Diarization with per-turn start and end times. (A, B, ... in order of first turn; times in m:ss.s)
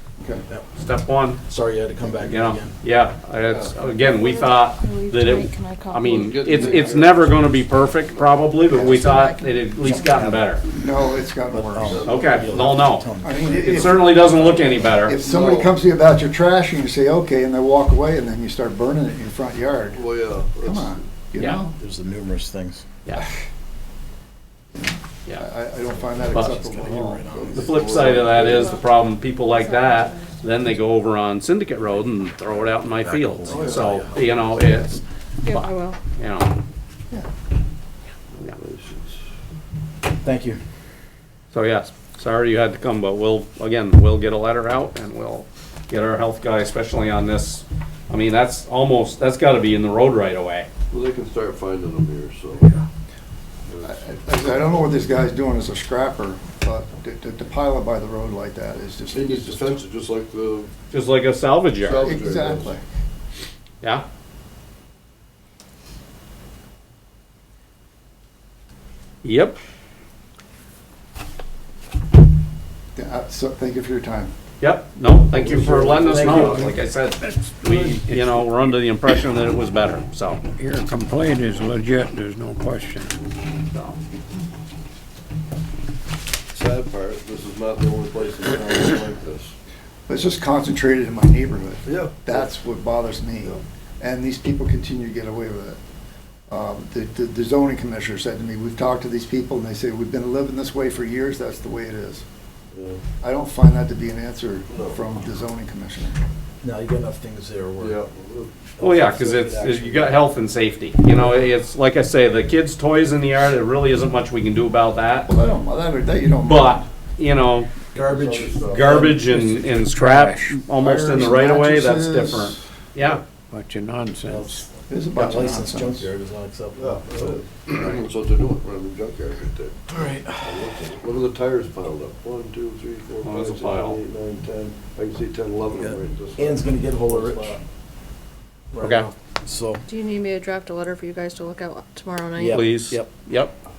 0:00.8-0:01.4 A
0:01.4-0:02.7 B
0:02.2-0:10.6 A
0:03.5-0:03.8 C
0:04.0-0:06.9 D
0:06.1-0:08.4 C
0:08.7-0:09.1 E
0:08.7-0:10.3 D
0:09.8-0:10.4 B
0:10.7-0:12.1 E
0:11.5-0:14.9 B
0:11.9-0:12.4 C
0:12.0-0:15.2 A
0:13.2-0:14.2 E
0:14.9-0:20.0 E
0:15.1-0:15.7 C
0:19.9-0:21.0 C
0:20.6-0:21.8 E
0:21.4-0:21.6 A
0:21.8-0:22.8 B
0:24.7-0:27.2 E
0:25.9-0:27.9 B
0:27.3-0:28.7 C
0:27.5-0:36.6 A
0:28.3-0:28.8 D
0:29.5-0:30.4 D
0:33.0-0:34.9 B
0:33.4-0:34.0 C
0:35.4-0:36.0 D
0:38.3-0:39.2 C
0:40.2-0:40.6 B
0:41.5-0:50.7 A
0:50.9-0:52.8 C
0:53.7-0:54.0 C
0:53.8-0:59.8 E
0:59.1-1:00.7 C
1:00.9-1:02.0 A
1:01.8-1:02.7 C
1:02.0-1:02.8 E
1:09.2-1:09.6 A
1:13.0-1:14.3 E
1:14.6-1:20.4 A
1:15.5-1:16.8 B
1:15.5-1:16.7 C
1:17.7-1:18.0 B
1:20.6-1:23.1 F
1:23.7-1:24.0 A
1:26.5-1:29.5 C
1:30.1-1:35.8 E
1:31.8-1:32.5 C
1:36.5-1:42.2 E
1:42.7-1:43.0 C
1:43.2-1:46.2 E
1:44.7-1:45.0 C
1:46.6-1:48.0 B
1:47.8-1:48.6 C
1:48.7-1:50.2 B
1:48.8-1:55.3 A
1:51.1-1:51.4 B
1:55.3-1:56.8 E
1:56.4-1:57.7 A
1:57.9-1:59.5 B
1:58.0-1:59.2 C
1:58.6-2:03.2 A
1:59.5-2:00.6 F
2:00.8-2:02.6 E
2:03.5-2:04.6 F
2:04.3-2:07.3 B
2:04.9-2:06.1 E
2:06.8-2:17.6 C
2:09.9-2:10.5 B
2:13.2-2:14.0 A
2:15.7-2:17.6 B
2:18.7-2:19.8 B
2:18.8-2:19.1 A
2:19.9-2:22.6 D
2:22.4-2:23.1 B
2:22.5-2:23.5 A